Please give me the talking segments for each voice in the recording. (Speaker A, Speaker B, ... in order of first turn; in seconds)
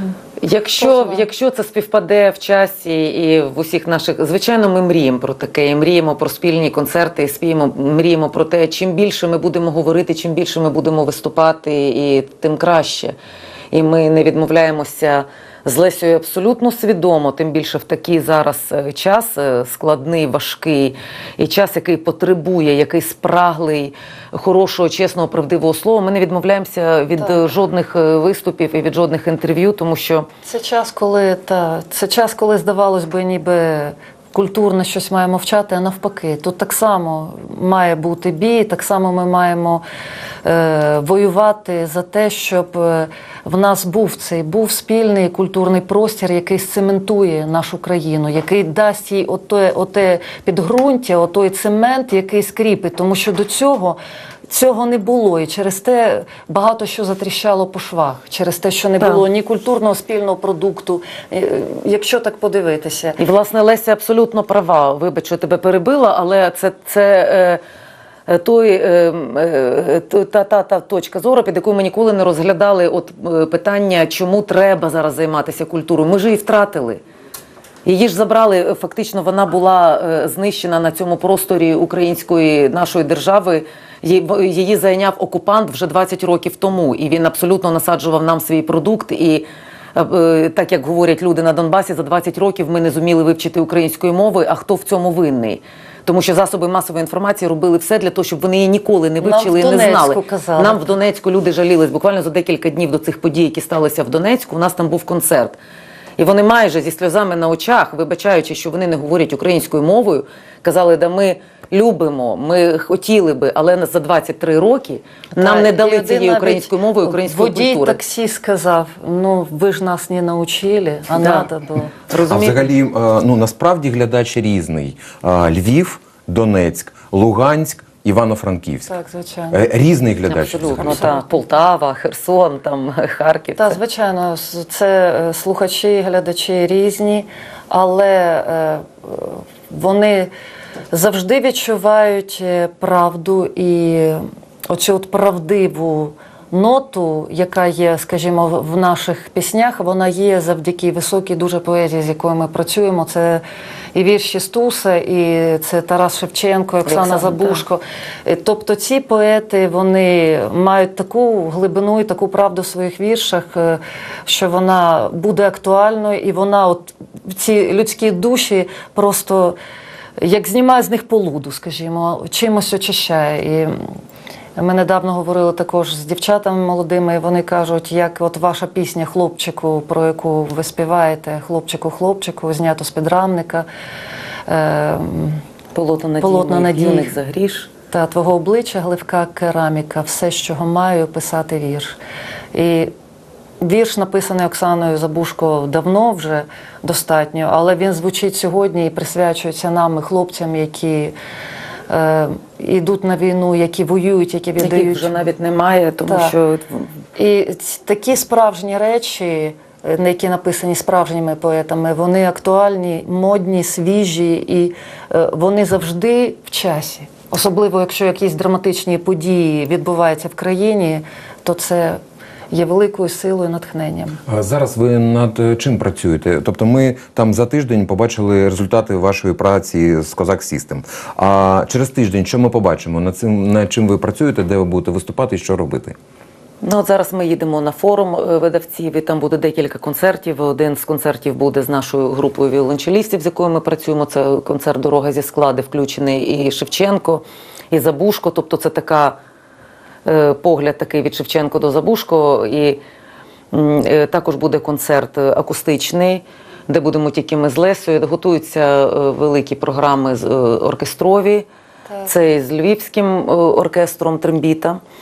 Speaker A: 0.4-13.1, 13.7-30.3, 63.2-67.6, 68.3-77.0, 77.8-105.5, 106.2-118.0, 121.2-121.5, 122.1-122.7, 130.3-133.8, 156.8-157.6, 185.7-187.7, 204.6-206.9, 236.6-249.2, 250.0-252.8, 253.5-261.5, 262.1-264.8
Speaker B: 0.8-1.2, 30.4-39.8, 40.4-63.2, 99.2-100.9, 115.3-121.9, 128.9-129.6, 130.8-131.3, 133.6-140.3, 140.9-169.6, 170.2-173.8, 174.6-183.7, 184.5-185.4, 186.2-187.1, 187.9-192.0, 192.5-192.9, 193.6-201.1, 201.9-205.1, 206.1-206.3, 207.2-224.2
Speaker C: 122.2-128.9, 129.5-131.1, 224.3-235.9